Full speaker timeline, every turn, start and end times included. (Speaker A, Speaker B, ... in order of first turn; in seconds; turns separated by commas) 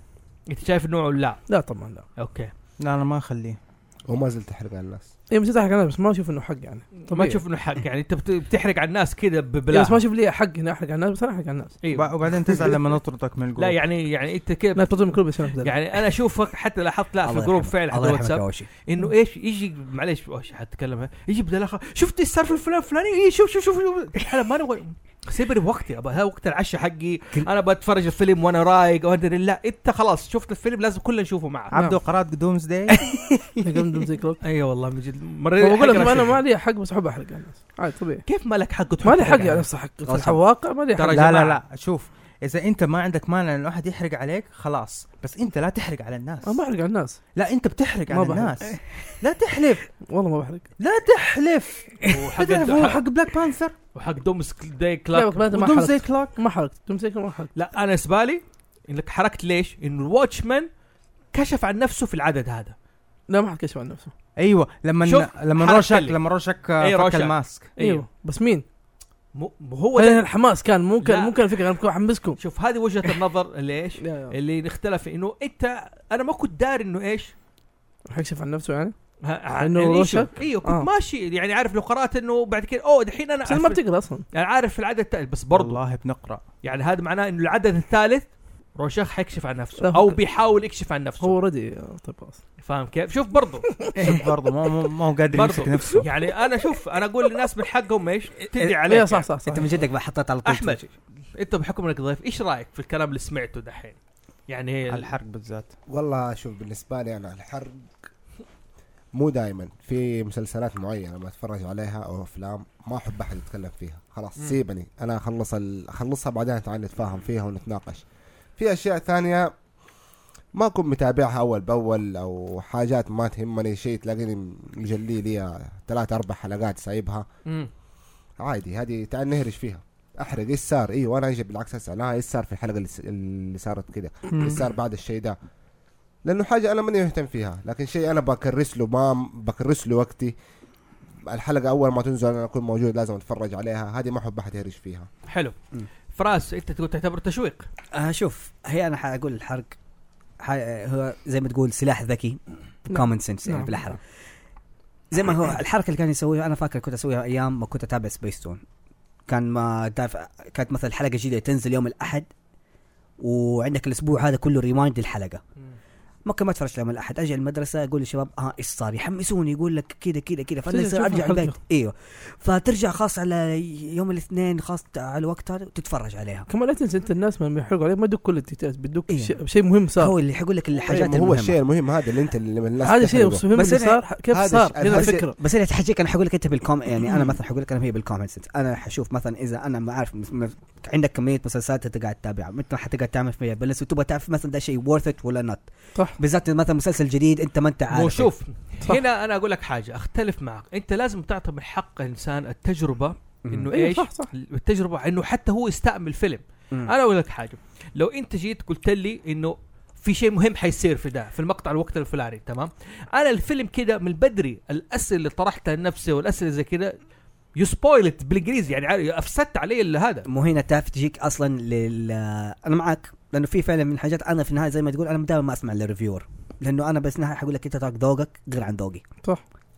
Speaker A: 0.5-1.6, Speaker B: 1.5-2.0, Speaker A: 2.2-2.5, Speaker C: 2.8-3.6, Speaker D: 4.1-5.1, Speaker B: 5.3-7.4, Speaker A: 7.0-10.0, Speaker B: 9.7-11.8, Speaker A: 11.8-12.7, Speaker C: 11.9-13.8, Speaker A: 13.6-31.8, Speaker B: 14.8-15.7, Speaker E: 17.2-18.7, Speaker C: 31.7-33.0, Speaker E: 33.0-33.9, Speaker B: 33.6-34.4, Speaker A: 34.4-36.4, Speaker B: 35.6-38.2, Speaker A: 38.3-39.7, Speaker B: 39.0-41.2, Speaker E: 40.0-40.4, Speaker A: 41.0-41.6, Speaker C: 41.1-46.6, Speaker B: 46.4-47.2, Speaker C: 47.4-49.9, Speaker B: 48.1-48.8, Speaker B: 50.1-50.7, Speaker C: 50.8-53.7, Speaker A: 52.1-53.0, Speaker A: 54.0-55.5, Speaker B: 55.1-57.5, Speaker C: 55.5-56.4, Speaker A: 57.5-60.7, Speaker A: 61.3-62.8, Speaker B: 63.3-64.1, Speaker C: 64.4-67.7, Speaker A: 65.0-66.2, Speaker A: 66.8-68.1, Speaker B: 67.8-68.6, Speaker A: 69.3-70.3, Speaker B: 70.0-72.4, Speaker A: 71.0-71.6, Speaker A: 72.4-77.3, Speaker B: 74.0-74.4, Speaker B: 78.1-79.0, Speaker A: 79.2-83.8, Speaker B: 79.6-80.9, Speaker B: 83.5-84.2, Speaker A: 84.3-85.8, Speaker C: 85.5-86.4, Speaker A: 86.6-91.4, Speaker B: 89.8-90.2, Speaker B: 91.2-92.4, Speaker A: 92.6-93.7, Speaker B: 93.7-94.0, Speaker C: 94.0-96.1, Speaker A: 95.3-99.3, Speaker B: 98.8-99.7, Speaker E: 99.5-100.9, Speaker A: 100.5-100.8, Speaker A: 101.4-105.1, Speaker C: 104.9-105.7, Speaker D: 105.9-107.9, Speaker D: 109.1-118.0, Speaker D: 118.6-119.5, Speaker D: 120.5-127.2, Speaker D: 128.4-135.4, Speaker C: 134.3-134.6, Speaker D: 136.2-140.3, Speaker D: 141.3-145.1, Speaker A: 145.3-145.6, Speaker A: 146.1-147.7, Speaker E: 147.9-149.8, Speaker E: 150.4-154.0, Speaker B: 152.9-153.8, Speaker E: 155.1-158.6, Speaker E: 159.3-162.3, Speaker E: 163.2-165.4, Speaker E: 166.3-176.5, Speaker B: 170.7-171.6, Speaker B: 176.5-180.1, Speaker E: 179.1-179.4, Speaker E: 180.0-181.6, Speaker D: 180.9-183.5, Speaker B: 182.8-185.3, Speaker E: 183.5-184.0, Speaker D: 184.3-185.3, Speaker E: 184.8-195.7, Speaker E: 196.2-198.3, Speaker A: 197.9-217.0, Speaker B: 203.7-204.3, Speaker A: 217.6-220.3, Speaker E: 220.3-229.1